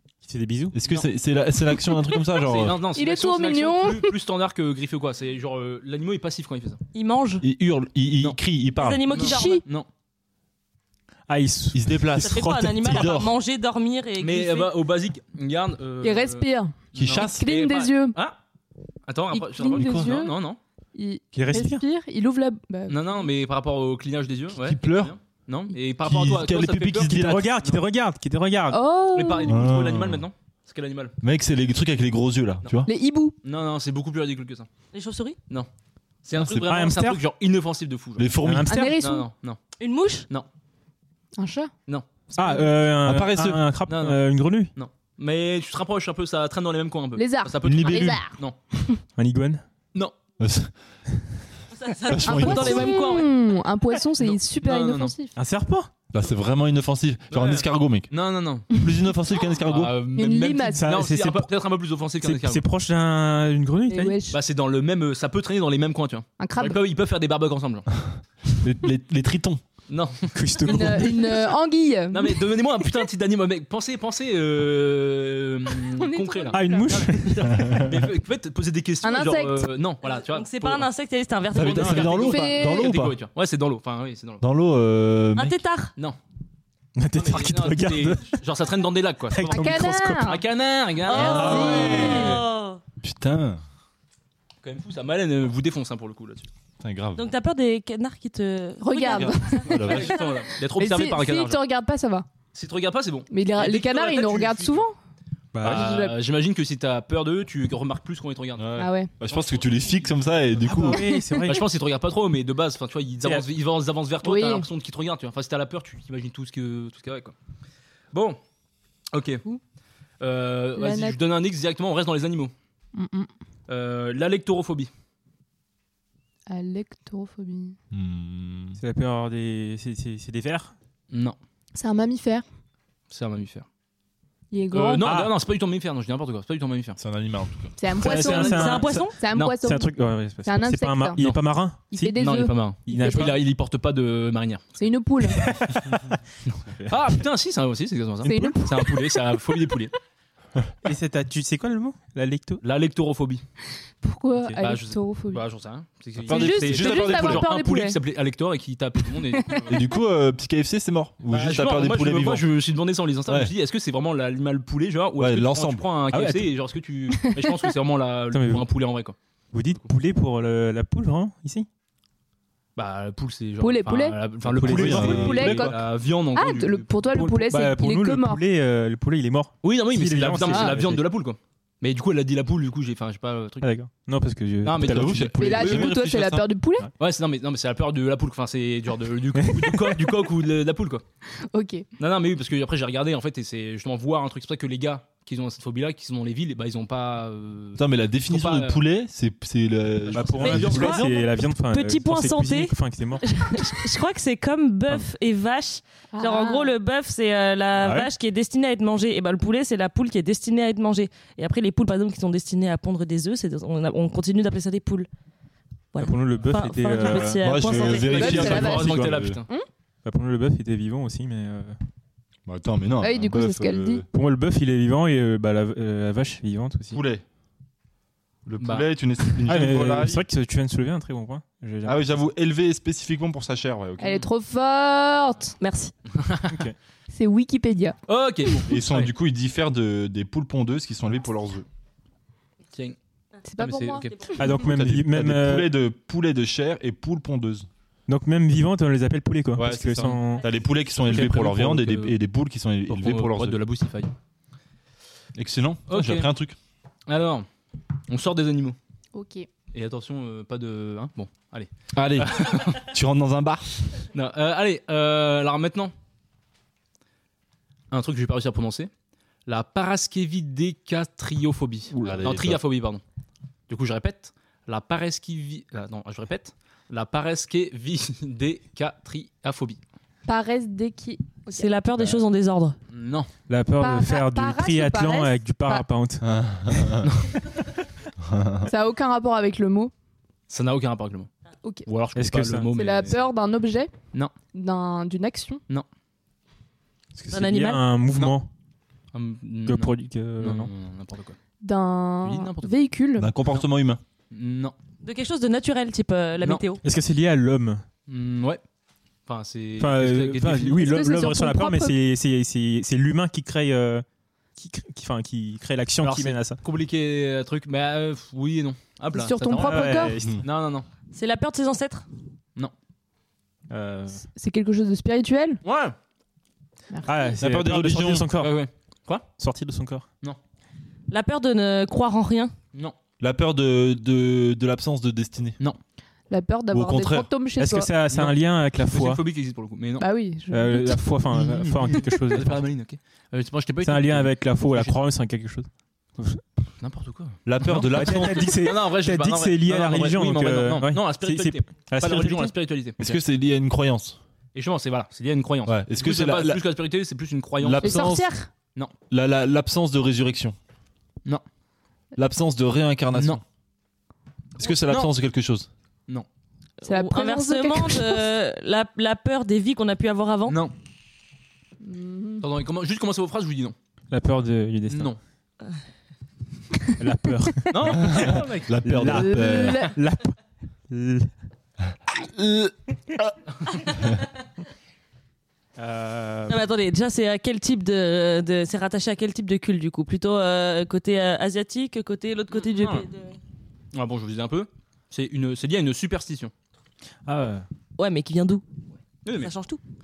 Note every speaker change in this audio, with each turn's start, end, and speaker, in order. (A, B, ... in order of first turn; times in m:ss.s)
0:00.2-0:00.8 A
0:00.7-0:02.8 B
0:02.4-0:06.8 C
0:02.9-0:04.1 D
0:06.9-0:07.4 E
0:07.4-0:09.1 B
0:08.8-0:09.6 E
0:09.1-0:09.9 C
0:09.1-0:09.6 D
0:11.3-0:13.1 A
0:11.7-0:13.3 B
0:12.2-0:14.7 E
0:14.2-0:18.4 C
0:16.0-0:18.2 D
0:17.0-0:17.5 B
0:19.1-0:20.6 C
0:19.3-0:20.3 D
0:19.7-0:20.3 B
0:20.9-0:23.3 D
0:21.4-0:21.8 A
0:22.9-0:27.8 C
0:24.5-0:25.1 B
0:26.0-0:27.5 B
0:27.1-0:28.8 A
0:28.7-0:29.6 D
0:29.1-0:31.1 C
0:29.4-0:30.2 B
0:31.2-0:32.9 B
0:32.6-0:32.9 C
0:32.8-0:33.4 D
0:33.4-0:34.7 C
0:34.9-0:35.4 E
0:36.2-0:38.3 C
0:36.4-0:36.6 B
0:36.5-0:37.2 A
0:38.2-0:38.9 B
0:38.4-0:39.1 A
0:38.7-0:39.2 D
0:39.0-0:39.6 C
0:39.8-0:40.2 E
0:41.4-0:41.7 D
0:42.4-0:42.7 D
0:42.4-0:44.7 A
0:43.0-0:43.6 B
0:43.9-0:44.2 C
0:44.7-0:48.6 C
0:47.2-0:49.0 D
0:47.6-0:48.2 B
0:47.8-0:48.1 A
0:49.2-0:49.6 A
0:50.4-0:50.7 B
0:51.7-0:53.3 E
0:52.1-0:53.1 B
0:52.2-0:55.3 D
0:54.2-0:55.1 C
0:55.4-0:55.9 A
0:56.1-0:58.1 B
0:57.3-0:58.7 C
0:58.7-0:59.9 B
0:59.6-1:02.6 C
1:00.1-1:00.9 D
1:00.7-1:01.5 A
1:02.2-1:04.2 A
1:03.9-1:04.4 D
1:04.3-1:07.9 C
1:06.4-1:06.8 D
1:08.6-1:09.6 B
1:09.9-1:11.1 C
1:10.3-1:11.4 A
1:10.6-1:12.4 D
1:12.1-1:20.9 C
1:15.7-1:17.0 D
1:16.5-1:17.7 A
1:17.5-1:17.8 B
1:19.0-1:19.7 D
1:20.0-1:22.3 E
1:21.5-1:23.1 B
1:21.6-1:24.4 C
1:22.1-1:22.9 D
1:24.4-1:25.6 B
1:25.3-1:25.9 E
1:27.0-1:28.4 A
1:27.1-1:32.2 C
1:29.3-1:30.4 A
1:29.5-1:30.4 D
1:31.1-1:32.8 E
1:31.1-1:32.4 D
1:31.2-1:32.4 B
1:31.2-1:32.4 A
1:33.0-1:33.6 B
1:34.6-1:36.5 C
1:36.8-1:37.3 B
1:37.2-1:39.9 E
1:38.8-1:40.0 D
1:39.0-1:40.2 B
1:39.7-1:41.6 C
1:40.8-1:42.2 D
1:42.5-1:44.8 C
1:43.3-1:44.9 D
1:45.5-1:46.0 A
1:45.6-1:49.9 C
1:45.6-1:46.1 D
1:48.6-1:51.1 B
1:48.8-1:49.1 D
1:50.6-1:51.7 A
1:50.9-1:51.3 D
1:51.4-1:57.3 C
1:54.2-1:54.7 D
1:58.1-1:58.4 C
1:59.1-1:59.4 C
2:00.2-2:02.5 C
2:00.8-2:01.2 D
2:02.9-2:03.3 D
2:03.7-2:04.9 C
2:06.5-2:07.8 D
2:07.9-2:08.8 B
2:08.8-2:10.7 A
2:11.1-2:11.4 C
2:11.7-2:12.4 D
2:13.1-2:13.6 C
2:14.5-2:15.1 D
2:14.7-2:17.0 C
2:15.0-2:15.4 A
2:17.0-2:17.8 B
2:17.8-2:19.9 D
2:18.0-2:22.2 A
2:18.0-2:18.7 C
2:18.4-2:19.1 E
2:20.4-2:22.5 D
2:22.2-2:24.6 C
2:22.9-2:23.4 A
2:24.8-2:25.5 D
2:25.4-2:26.2 A
2:26.9-2:29.9 C
2:28.2-2:28.6 A
2:28.2-2:29.0 D
2:30.8-2:32.6 A
2:32.6-2:33.4 C
2:34.0-2:35.4 D
2:34.6-2:39.8 C
2:36.2-2:37.5 B
2:36.3-2:38.0 D
2:39.4-2:39.6 D
2:39.7-2:42.5 B
2:41.3-2:49.1 C
2:43.3-2:43.5 B
2:45.2-2:45.8 B
2:46.1-2:46.5 A
2:47.2-2:47.6 D
2:48.3-2:48.6 A
2:49.5-2:51.7 A
2:52.8-2:56.9 C
2:53.6-2:58.4 D
2:54.6-2:55.7 A
2:54.6-2:55.7 B
2:57.1-3:01.0 A
2:59.6-3:03.7 C
3:00.5-3:00.8 D
3:03.6-3:06.0 A
3:04.6-3:05.6 C
3:04.8-3:06.5 B
3:05.4-3:06.9 D
3:07.0-3:11.0 C
3:09.4-3:10.0 A
3:11.5-3:11.8 D
3:12.0-3:18.8 C
3:17.8-3:20.9 B
3:20.1-3:21.2 C
3:20.1-3:23.9 A
3:20.6-3:21.1 E
3:21.7-3:35.1 E
3:26.1-3:26.7 D
3:27.8-3:28.1 A
3:35.9-3:38.3 E
3:36.0-3:39.1 A
3:37.4-3:39.4 B
3:37.8-3:39.5 C
3:38.1-3:39.6 D
3:40.0-3:41.8 A
3:42.4-3:44.0 B
3:43.0-3:44.0 D
3:44.1-3:47.0 A
3:46.9-3:47.2 B
3:48.4-3:50.2 B
3:48.6-3:48.9 C
3:49.4-3:52.0 A
3:51.8-3:54.3 B
3:54.0-3:55.6 D
3:55.6-3:55.9 E
3:56.2-3:56.6 C
3:56.5-3:56.7 A
3:57.1-3:58.0 D
3:58.1-3:59.1 C
3:58.7-4:01.6 B
4:02.7-4:03.0 C
4:03.5-4:04.5 D
4:03.6-4:04.1 C
4:04.4-4:05.7 A
4:04.5-4:07.7 B
4:08.1-4:10.4 A
4:09.5-4:13.6 B
4:11.0-4:12.2 C
4:12.9-4:14.1 C
4:15.4-4:16.6 B
4:15.9-4:16.3 C
4:17.1-4:17.5 C
4:18.1-4:18.8 C
4:19.1-4:19.5 D
4:19.7-4:22.9 C
4:21.9-4:24.0 B
4:24.1-4:25.9 C
4:27.9-4:28.9 C
4:29.5-4:33.0 C
4:31.9-4:32.6 B
4:33.7-4:39.8 C
4:40.2-4:41.7 D
4:41.5-4:42.8 E
4:42.9-4:43.3 C
4:43.5-4:46.9 A
4:43.8-4:45.8 D
4:46.2-4:47.1 B
4:47.0-4:47.4 C
4:48.2-4:48.7 B
4:48.6-4:49.9 D
4:50.5-4:51.3 C
4:51.8-4:53.2 C
4:52.2-4:52.7 A
4:52.7-4:53.9 D
4:54.5-4:55.6 D
4:57.1-4:58.5 A
4:57.3-4:57.8 E
4:59.1-5:01.4 C
4:59.6-5:00.7 A
5:01.6-5:03.3 D
5:02.2-5:02.7 C
5:03.2-5:04.0 B
5:04.3-5:04.7 C
5:05.0-5:06.8 E
5:06.8-5:07.8 A
5:08.1-5:08.6 C
5:09.3-5:10.9 C
5:09.8-5:14.0 A
5:10.8-5:12.0 D
5:14.6-5:16.6 A
5:16.0-5:20.8 C
5:19.1-5:20.2 D
5:19.6-5:20.4 A
5:21.1-5:22.0 E
5:23.7-5:24.2 A
5:24.3-5:25.6 D
5:25.6-5:25.9 C
5:26.9-5:27.4 D
5:27.0-5:28.6 A
5:27.4-5:28.3 B
5:28.4-5:29.3 C
5:29.4-5:30.0 A
5:31.1-5:32.5 E
5:33.2-5:35.6 B
5:36.3-5:37.9 D
5:36.7-5:37.3 B
5:37.6-5:39.2 A
5:38.1-5:40.0 C
5:40.0-5:41.0 D
5:40.5-5:42.6 A
5:41.3-5:45.0 C
5:43.8-5:45.7 A
5:46.8-5:47.4 C
5:47.4-5:48.6 B
5:47.6-5:52.5 A
5:48.2-5:53.2 C
5:53.0-5:54.2 B
5:54.5-5:58.1 C
5:55.6-5:56.6 B
5:57.6-5:58.3 B
5:57.8-5:58.5 D
5:59.1-6:00.6 B
6:02.2-6:03.4 B
6:03.1-6:03.4 C
6:04.6-6:05.7 B
6:04.7-6:05.1 C
6:06.8-6:10.6 E
6:06.8-6:08.3 D
6:10.5-6:10.7 C
6:11.8-6:12.4 D
6:12.4-6:13.8 C
6:14.1-6:15.1 A
6:14.9-6:15.2 C
6:17.0-6:20.4 A
6:17.7-6:18.8 C
6:18.0-6:19.9 B
6:19.1-6:19.9 D
6:20.9-6:21.3 A
6:22.1-6:23.3 B
6:25.8-6:26.6 A
6:26.5-6:33.4 E
6:32.7-6:33.1 C
6:33.9-6:36.5 C
6:37.2-6:37.6 A
6:38.0-6:38.6 E
6:39.2-6:39.5 C
6:39.3-6:39.8 E